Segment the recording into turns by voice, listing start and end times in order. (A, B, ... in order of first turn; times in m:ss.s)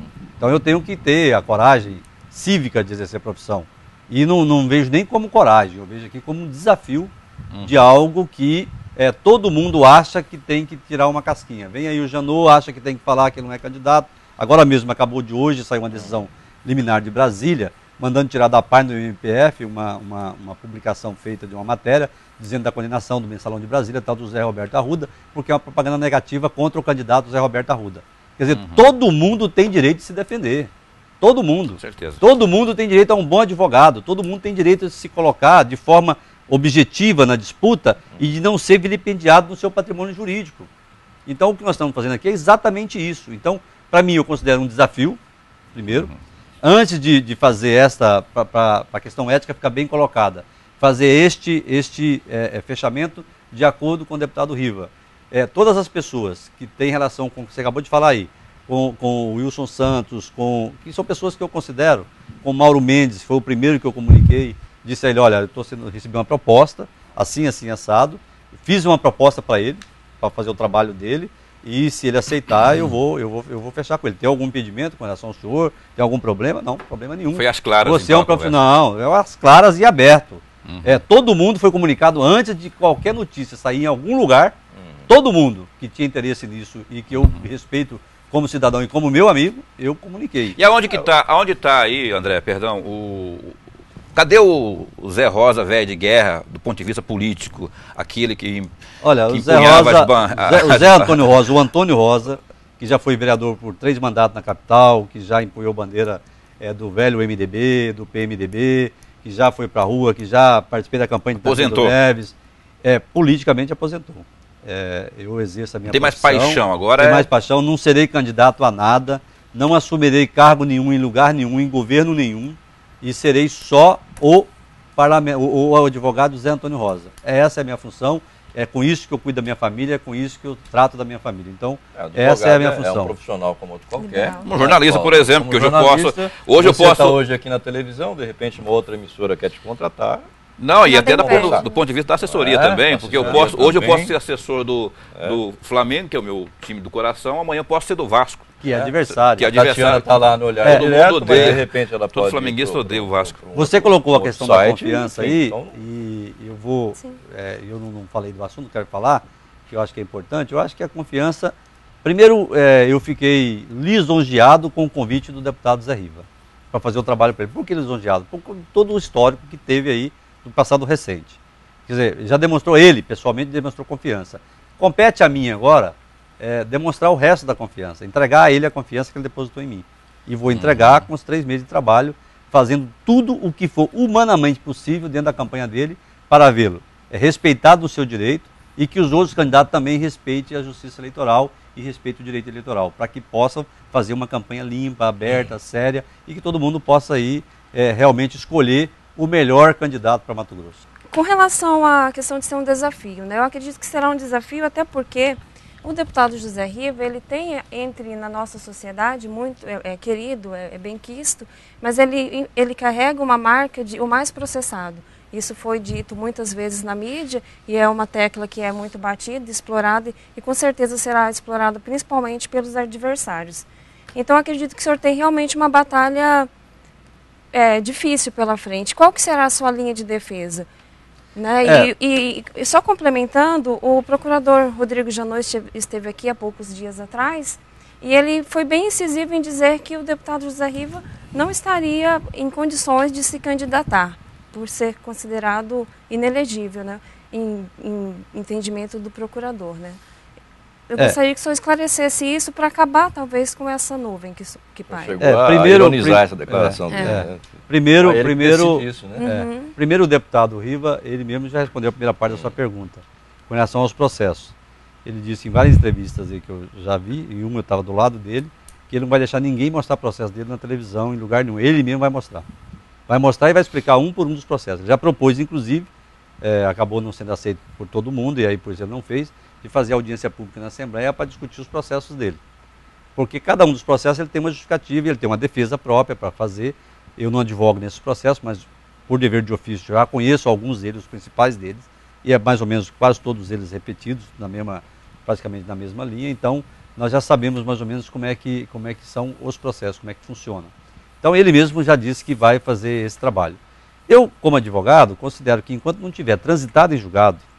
0:00.4-0:30.7 A
0:28.5-0:28.8 B
0:31.2-0:40.7 A
0:31.8-0:32.2 B
0:41.3-0:45.2 A
0:45.7-0:46.1 A
0:46.6-1:24.6 A
1:17.3-1:18.6 B
1:20.7-1:21.0 B
1:25.1-1:30.6 A
1:27.2-1:27.5 B
1:30.6-1:33.6 B
1:34.1-1:38.7 B
1:39.0-2:13.2 A
1:39.3-1:41.3 B
1:51.4-1:52.0 B
1:55.9-1:57.3 B
2:12.0-2:20.2 C
2:14.0-2:14.4 D
2:14.4-2:17.2 B
2:20.6-2:28.6 B
2:20.8-2:21.8 D
2:20.9-2:21.7 C
2:22.2-2:24.1 C
2:23.1-2:23.5 A
2:28.6-2:29.5 A
2:29.4-2:33.4 B
2:29.5-2:35.8 C
2:30.6-2:31.6 A
2:33.6-3:20.8 A
3:00.5-3:01.1 B
3:21.1-3:46.5 D
3:47.5-3:50.7 D
3:51.4-4:10.0 D
3:51.6-3:51.9 A
4:10.9-4:15.2 D
4:14.9-4:19.2 C
4:15.2-4:24.5 A
4:16.9-4:17.2 D
4:19.2-4:19.7 D
4:25.0-4:32.5 A
4:33.1-4:35.9 A
4:36.4-4:42.4 A
4:43.2-5:00.7 A
5:01.2-5:07.4 A